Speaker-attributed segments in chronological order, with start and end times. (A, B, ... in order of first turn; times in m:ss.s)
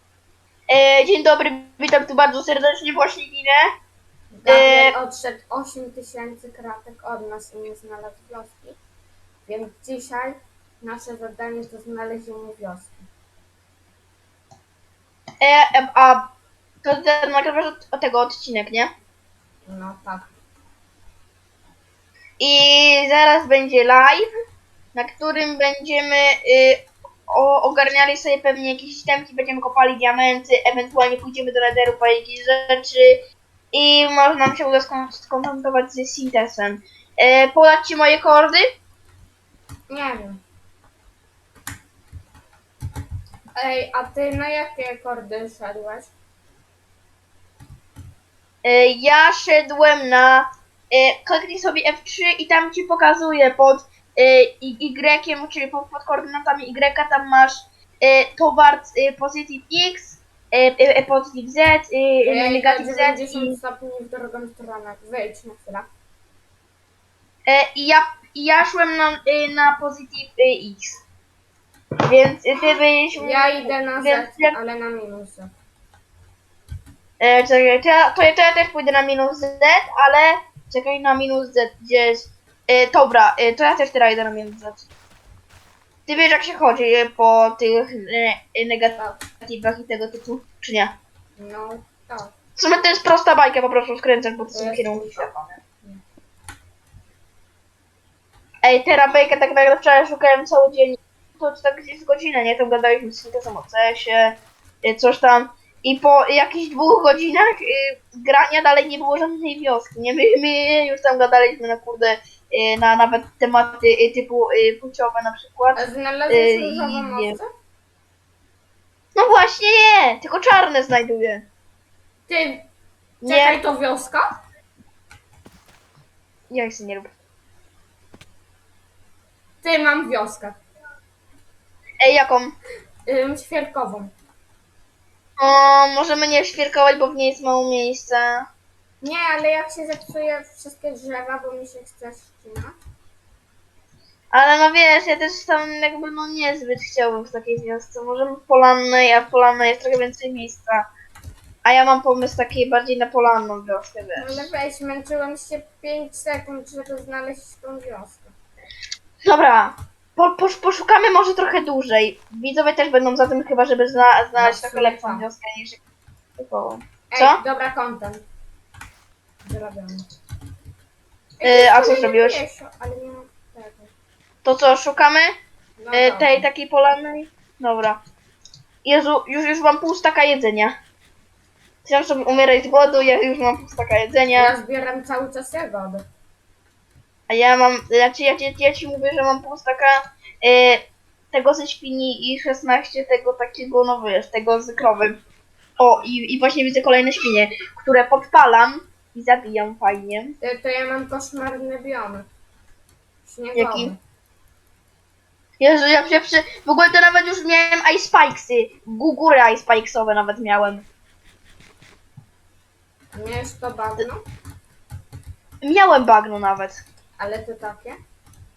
0:00.7-0:03.6 A
0:04.3-0:08.8 B
0:04.4-0:04.9 A
0:09.5-0:13.0 B
0:15.4-0:16.3 A
0:16.8-0:18.9 A
0:19.6-0:20.3 B
0:22.4-0:24.3 A
0:24.9-0:33.1 A
0:33.7-0:38.7 A
0:39.9-0:40.4 B
0:43.6-0:46.1 B
0:48.6-1:03.6 A
1:02.2-1:05.9 B
1:07.5-1:11.0 A
1:12.0-1:14.6 A
1:13.2-1:15.5 B
1:17.2-1:24.9 A
1:26.1-1:31.0 A
1:31.4-1:32.3 B
1:32.6-1:35.6 A
1:34.5-1:35.3 B
1:38.6-1:57.4 A
1:55.8-1:57.5 B
1:59.1-2:01.4 A
2:02.3-2:02.6 B
2:03.2-2:03.6 A
2:03.2-2:04.4 B
2:06.5-2:07.1 A
2:09.6-2:10.6 B
2:12.0-2:12.5 A
2:13.0-2:14.1 B
2:15.4-2:18.5 A
2:19.0-2:22.7 B
2:24.3-2:30.9 A
2:31.6-2:34.5 A
2:34.1-2:38.3 B
2:39.2-2:45.8 A
2:44.4-2:45.2 B
2:46.4-2:47.4 A
2:47.1-2:48.2 B
2:49.4-2:50.1 B
2:51.4-2:53.9 B
2:51.4-2:52.4 A
2:54.4-2:55.3 A
2:55.8-2:56.4 B
2:55.9-2:58.0 A
2:58.8-3:00.8 A
3:01.8-3:04.5 A
3:04.3-3:06.0 B
3:07.3-3:15.2 A
3:15.8-3:20.4 A
3:20.4-3:22.3 B
3:23.2-3:24.0 B
3:23.5-3:23.9 A
3:25.6-3:30.8 A
3:33.1-3:34.2 B
3:35.6-3:36.8 A
3:37.2-3:38.0 B